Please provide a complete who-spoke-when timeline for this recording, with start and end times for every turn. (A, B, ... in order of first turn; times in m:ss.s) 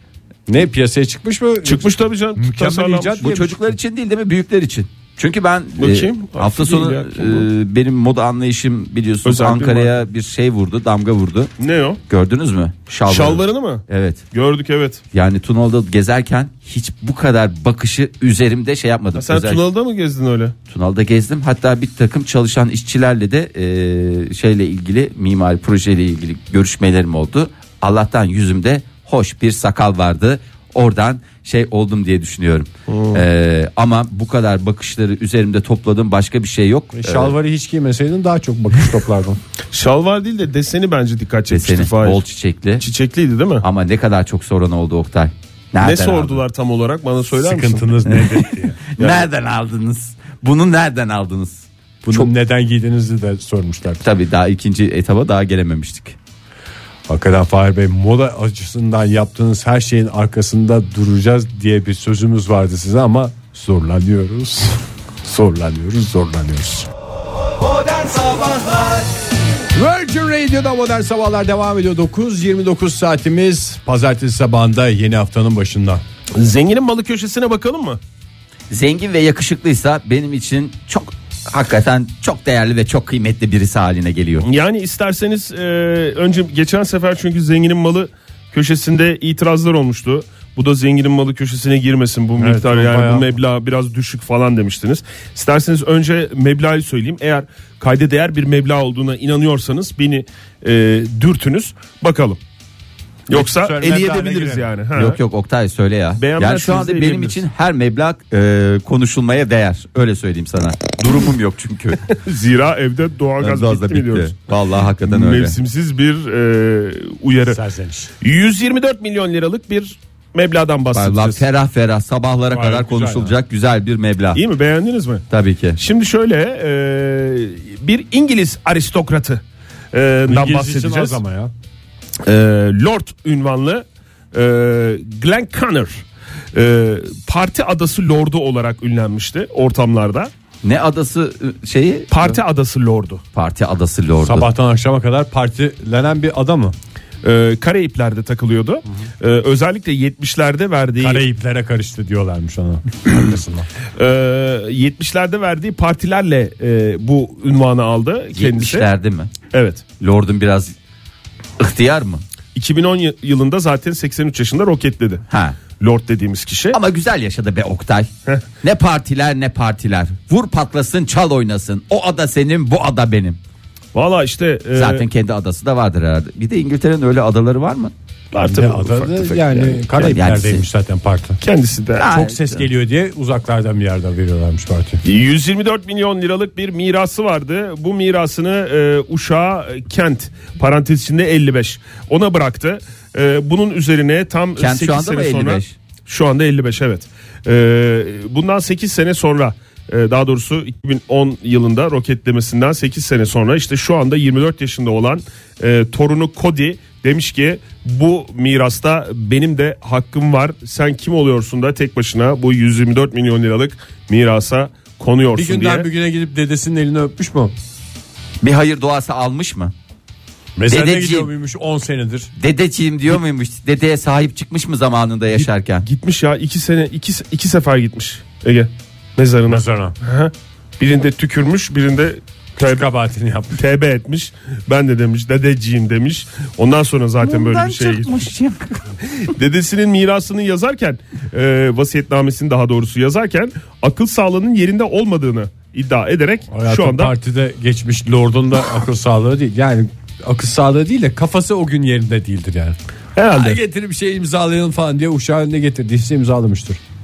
0:00.5-0:03.8 A
0:01.6-0:03.3 B
0:03.2-0:11.5 C
0:05.8-0:07.5 B
0:09.2-0:10.0 B
0:11.6-0:12.0 B
0:12.1-0:14.2 C
0:13.1-0:15.0 B
0:15.1-0:19.6 C
0:19.2-0:20.5 B
0:20.7-0:37.3 C
0:32.9-0:33.2 B
0:36.9-0:39.4 A
0:39.7-0:42.2 B
0:41.5-0:42.8 C
0:42.8-0:43.6 B
0:43.6-0:46.4 C
0:45.8-0:48.1 B
0:47.4-0:48.8 A
0:48.1-0:52.3 C
0:49.0-0:49.3 B
0:52.0-0:54.0 A
0:54.0-0:56.2 C
0:57.1-1:06.9 A
1:09.7-1:16.0 A
1:16.3-1:18.0 B
1:18.7-1:24.5 C
1:24.4-1:42.4 B
1:32.4-1:33.3 A
1:43.3-1:45.2 B
1:43.3-1:44.7 A
1:44.9-1:52.0 C
1:46.2-1:47.4 B
1:52.1-1:54.5 B
1:53.4-1:55.5 C
1:55.0-1:57.6 B
1:57.4-1:58.1 A
1:58.2-2:01.4 B
2:00.9-2:04.4 C
2:02.5-2:03.4 A
2:04.3-2:05.2 B
2:05.3-2:05.8 C
2:05.8-2:09.4 B
2:09.9-2:11.2 B
2:10.3-2:11.5 A
2:12.2-2:20.3 B
2:20.6-2:22.4 C
2:22.1-2:23.2 B
2:23.3-2:24.5 C
2:24.2-2:26.8 A
2:27.2-2:31.2 B
2:31.0-2:33.7 A
2:34.0-2:38.9 B
2:38.3-2:39.3 C
2:39.5-2:39.8 B
2:40.0-2:40.7 C
2:41.6-2:42.2 C
2:42.5-2:45.2 B
2:45.3-2:45.6 C
2:45.8-2:46.8 B
2:46.7-2:48.1 C
2:48.6-2:53.4 C
2:53.9-2:55.0 B
2:54.7-2:57.9 C
2:58.3-3:00.1 B
2:58.4-3:01.4 A
2:59.9-3:00.6 C
3:01.4-3:02.1 B
3:02.0-3:02.6 C
3:02.0-3:05.0 A
3:05.0-3:35.9 B
3:14.6-3:15.8 C
3:35.3-3:37.5 A
3:38.4-3:39.7 C
3:40.6-3:42.3 A
3:40.7-3:41.3 C
3:42.4-3:45.8 C
3:45.3-3:52.8 B
3:49.5-3:50.0 A
3:52.6-3:53.6 A
3:53.5-3:58.3 B
3:57.2-3:58.8 C
3:59.1-4:07.1 B
4:06.5-4:12.8 A
4:13.2-4:13.6 B
4:13.3-4:16.8 A